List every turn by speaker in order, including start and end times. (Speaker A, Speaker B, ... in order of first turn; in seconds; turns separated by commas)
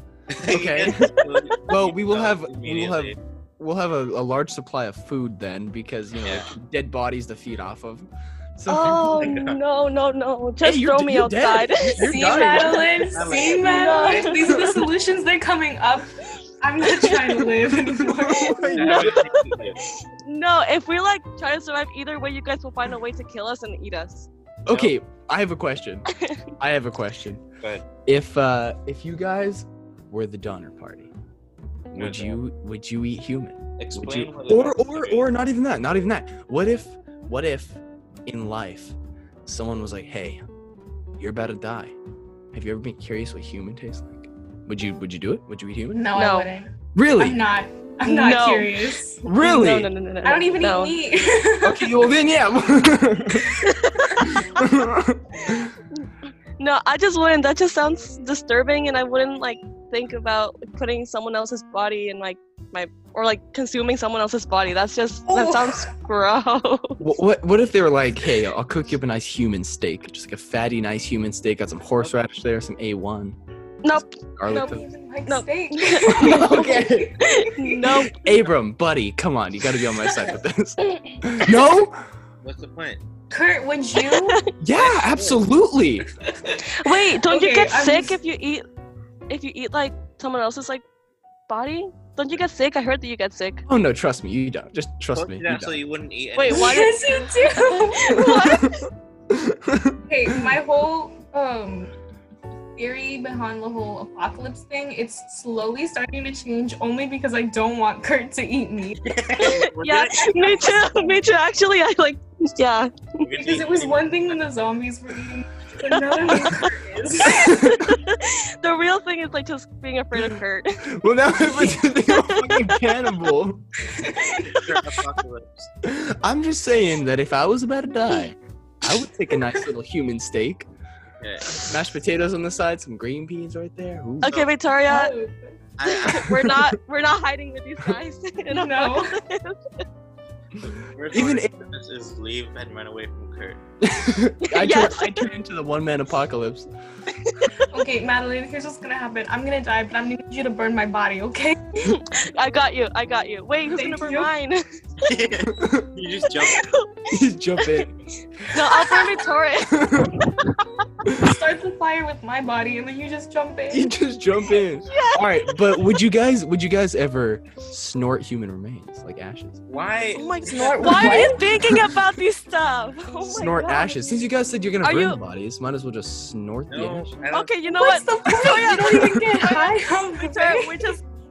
Speaker A: 0.3-3.1, Speaker B: 0.5-1.1, Speaker B: 1.7-9.1, Speaker C: 8.7-12.8, Speaker A: 8.9-9.6, Speaker B: 10.6-13.1, Speaker D: 12.0-18.7, Speaker A: 13.1-14.7, Speaker C: 13.5-14.8, Speaker C: 17.0-17.6, Speaker B: 17.8-19.3, Speaker C: 18.5-24.3, Speaker A: 18.8-19.8, Speaker B: 24.6-27.4, Speaker A: 24.7-24.9, Speaker C: 26.1-26.4, Speaker B: 28.1-31.1, Speaker A: 31.9-32.4, Speaker B: 31.9-40.4, Speaker A: 33.8-35.3, Speaker B: 41.2-41.9, Speaker B: 42.5-46.0, Speaker D: 45.9-49.2, Speaker C: 46.1-46.5, Speaker B: 46.9-47.4, Speaker C: 48.0-51.0, Speaker B: 49.2-49.9, Speaker D: 50.2-52.0, Speaker B: 51.6-53.5, Speaker C: 53.6-54.4, Speaker B: 54.4-55.7, Speaker C: 56.6-67.0, Speaker B: 67.0-73.4, Speaker C: 73.8-78.2, Speaker B: 74.0-74.8, Speaker D: 74.5-77.8, Speaker B: 76.1-77.2, Speaker B: 78.1-82.0, Speaker C: 80.8-81.5, Speaker A: 82.4-83.0, Speaker D: 83.3-84.4, Speaker C: 84.0-84.5, Speaker B: 84.6-86.1, Speaker A: 84.7-85.5, Speaker C: 86.6-88.6, Speaker D: 87.2-88.2, Speaker C: 89.3-90.8, Speaker C: 91.5-93.6, Speaker B: 93.7-95.8, Speaker A: 95.1-96.9, Speaker C: 96.4-98.9, Speaker D: 96.5-98.6, Speaker B: 99.3-100.0, Speaker D: 100.1-101.9, Speaker D: 102.8-109.2, Speaker A: 109.0-111.0, Speaker C: 109.4-113.2, Speaker A: 113.2-114.5, Speaker D: 113.3-117.6, Speaker C: 115.9-116.7, Speaker B: 117.3-117.9, Speaker C: 117.4-120.8, Speaker B: 120.9-123.6, Speaker C: 121.4-123.2, Speaker D: 123.9-124.7, Speaker A: 124.4-125.7, Speaker B: 125.8-130.7, Speaker A: 131.2-131.7, Speaker B: 131.6-134.3, Speaker C: 134.2-135.1, Speaker A: 134.2-134.5, Speaker D: 134.9-135.6, Speaker A: 135.8-136.5, Speaker C: 135.9-139.8, Speaker B: 136.2-136.6, Speaker D: 138.5-139.2, Speaker A: 140.6-143.6, Speaker B: 141.1-141.5, Speaker B: 143.8-146.7, Speaker C: 144.4-145.2, Speaker C: 147.2-147.7, Speaker D: 147.7-151.9, Speaker C: 151.8-154.6, Speaker D: 153.7-154.3, Speaker A: 155.0-156.7, Speaker B: 155.5-155.9, Speaker C: 156.3-157.9, Speaker B: 157.1-157.9, Speaker C: 158.4-160.0, Speaker B: 159.7-160.3, Speaker D: 161.1-163.9, Speaker B: 163.7-169.6, Speaker C: 164.8-166.0, Speaker A: 169.7-171.2, Speaker C: 170.1-174.2, Speaker D: 170.4-171.4, Speaker B: 173.2-177.1, Speaker C: 174.8-175.2, Speaker A: 176.7-177.6, Speaker C: 177.3-181.1, Speaker D: 177.8-180.9